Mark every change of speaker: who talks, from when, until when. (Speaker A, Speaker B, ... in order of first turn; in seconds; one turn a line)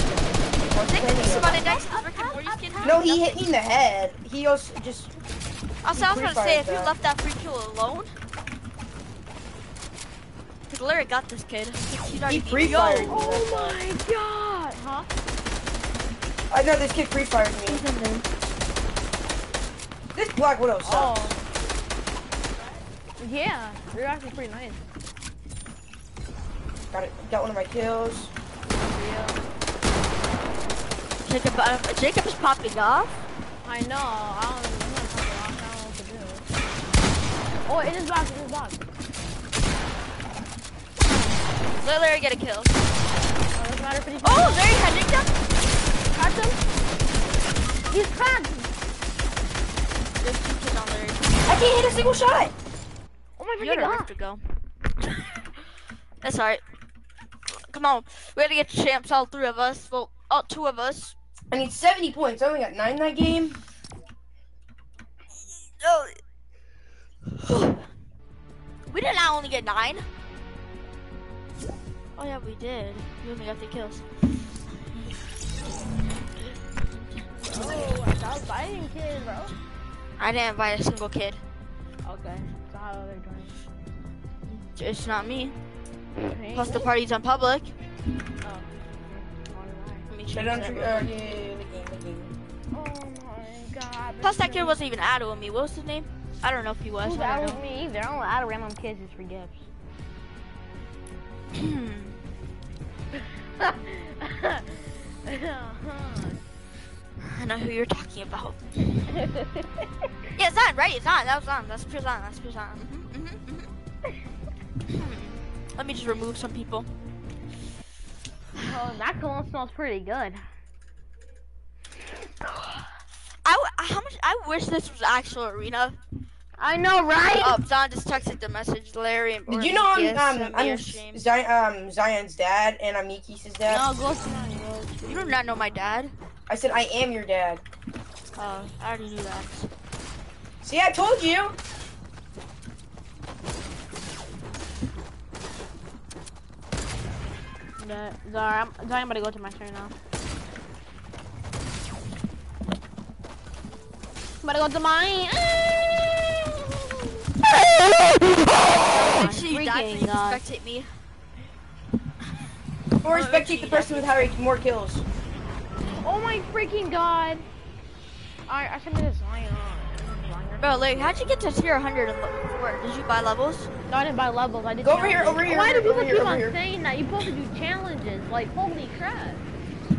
Speaker A: 0.7-1.6
Speaker B: 0.9-3.4
Speaker C: 1.4-3.0
Speaker A: 2.8-5.1
Speaker B: 5.8-8.1
Speaker A: 5.9-6.9
Speaker B: 10.7-13.2
Speaker A: 12.1-13.8
Speaker C: 13.1-15.1
Speaker A: 16.5-17.8
Speaker B: 17.7-18.2
Speaker A: 20.1-21.3
Speaker C: 20.8-21.4
Speaker C: 23.2-24.8
Speaker A: 26.9-28.3
Speaker C: 28.8-29.4
Speaker B: 31.2-33.1
Speaker C: 33.6-36.4
Speaker C: 37.6-38.9
Speaker B: 41.7-42.8
Speaker C: 43.5-44.6
Speaker B: 44.2-45.3
Speaker C: 46.1-46.6
Speaker C: 47.9-48.7
Speaker B: 50.2-51.6
Speaker A: 51.5-52.5
Speaker C: 53.4-54.1
Speaker B: 53.6-54.4
Speaker B: 56.2-56.6
Speaker B: 57.5-61.1
Speaker A: 61.5-63.6
Speaker B: 65.8-66.2
Speaker B: 67.3-67.8
Speaker B: 68.9-70.0
Speaker B: 72.2-74.0
Speaker B: 77.4-77.9
Speaker C: 77.4-79.6
Speaker B: 80.2-81.4
Speaker C: 82.0-83.5
Speaker B: 84.5-85.5
Speaker C: 86.2-86.9
Speaker B: 86.5-87.7
Speaker C: 88.4-90.1
Speaker B: 90.1-91.1
Speaker A: 90.3-92.3
Speaker C: 92.7-94.8
Speaker B: 94.2-97.6
Speaker C: 97.0-99.7
Speaker B: 101.5-102.2
Speaker C: 103.1-106.4
Speaker B: 107.2-108.6
Speaker C: 109.1-109.8
Speaker B: 110.4-113.7
Speaker B: 114.9-116.9
Speaker C: 118.5-120.5
Speaker C: 122.4-122.9
Speaker B: 123.4-126.0
Speaker C: 126.6-127.6
Speaker B: 127.4-131.2
Speaker A: 129.5-133.9
Speaker B: 133.7-134.1
Speaker C: 133.9-135.8
Speaker B: 135.1-136.1
Speaker A: 136.5-137.6
Speaker B: 138.4-139.7
Speaker A: 140.6-141.6
Speaker C: 147.8-149.9
Speaker C: 154.4-160.4
Speaker B: 158.8-160.9
Speaker B: 163.0-164.3
Speaker A: 163.0-165.0
Speaker C: 166.0-167.4
Speaker C: 168.5-171.4
Speaker B: 170.6-173.7
Speaker C: 173.9-179.4
Speaker A: 174.8-176.6